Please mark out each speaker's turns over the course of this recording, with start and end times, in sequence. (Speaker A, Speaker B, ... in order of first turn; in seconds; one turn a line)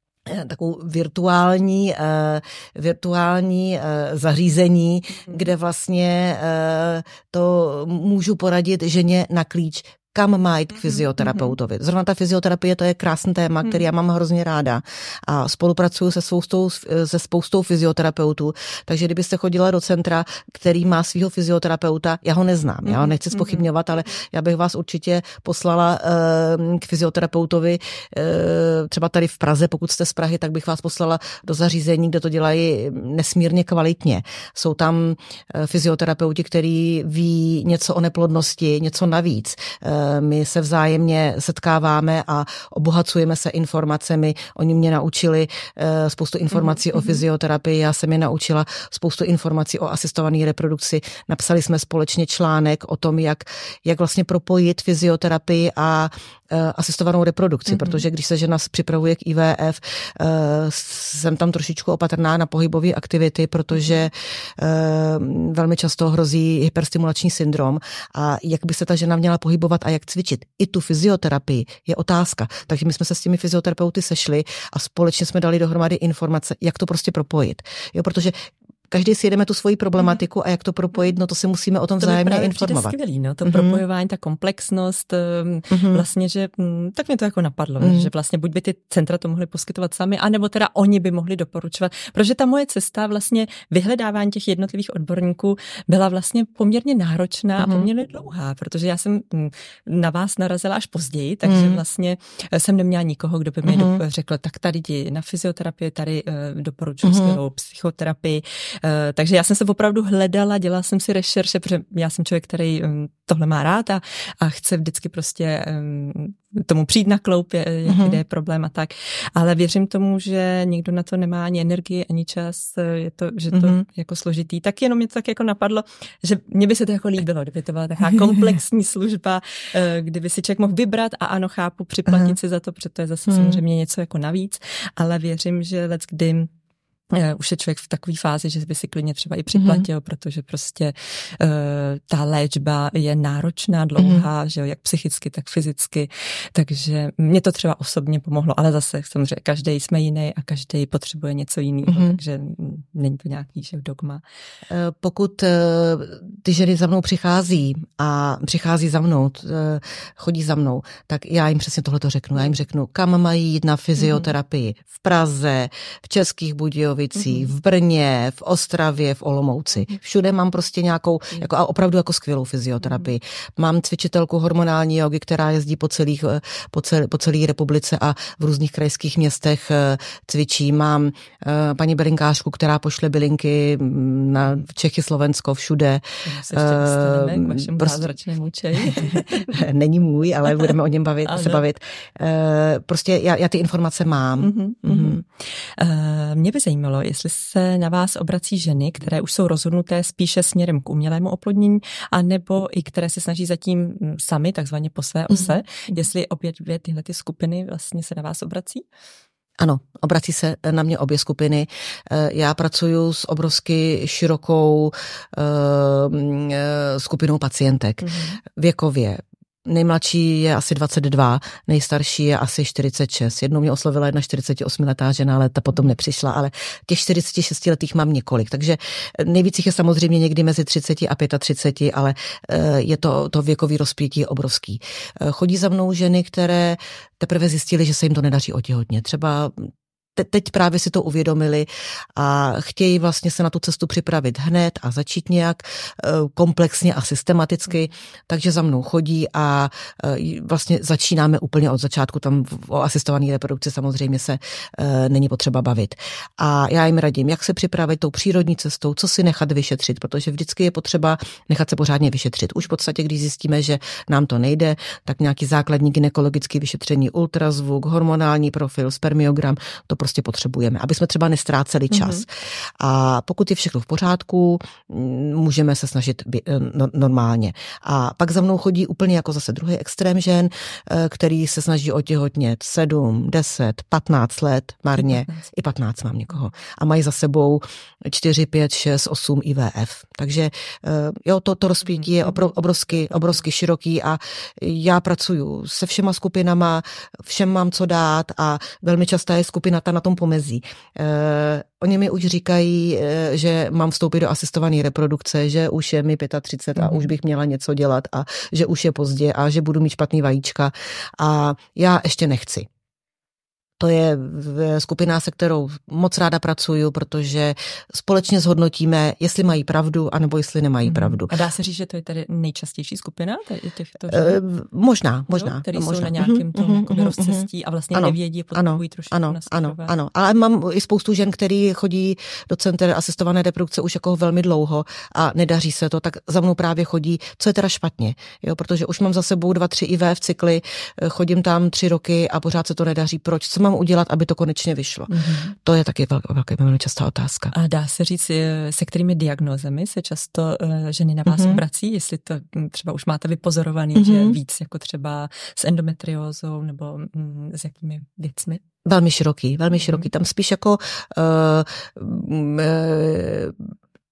Speaker A: 0.2-78.3
Speaker B: 10.8-11.5
Speaker B: 22.9-23.6
Speaker B: 46.5-47.2
Speaker B: 57.7-58.0
Speaker B: 63.7-64.0
Speaker A: 78.9-83.8
Speaker B: 82.0-136.5
Speaker A: 85.7-86.0
Speaker A: 87.8-88.1
Speaker A: 97.6-97.9
Speaker A: 101.4-101.8
Speaker A: 103.6-104.0
Speaker A: 107.0-107.4
Speaker A: 117.9-118.2
Speaker A: 123.5-123.8
Speaker A: 128.2-128.4
Speaker A: 132.1-132.3
Speaker A: 133.3-133.6
Speaker B: 137.1-154.2
Speaker A: 139.5-139.9
Speaker A: 144.0-144.2
Speaker A: 151.9-152.2
Speaker A: 154.7-188.0
Speaker B: 164.0-164.3
Speaker B: 167.1-167.5
Speaker B: 186.2-189.5
Speaker A: 188.9-195.2
Speaker B: 191.2-191.6
Speaker B: 194.4-208.8
Speaker A: 209.6-312.7
Speaker B: 218.0-218.4
Speaker B: 271.9-272.2
Speaker B: 285.0-285.5
Speaker B: 291.9-293.3
Speaker B: 306.8-307.1
Speaker A: 313.8-321.3
Speaker B: 320.8-324.4
Speaker A: 324.1-347.5
Speaker B: 325.3-329.9
Speaker B: 345.1-345.5
Speaker B: 347.5-358.6
Speaker A: 351.3-351.6
Speaker A: 353.9-354.4
Speaker A: 358.8-363.6
Speaker B: 359.7-360.1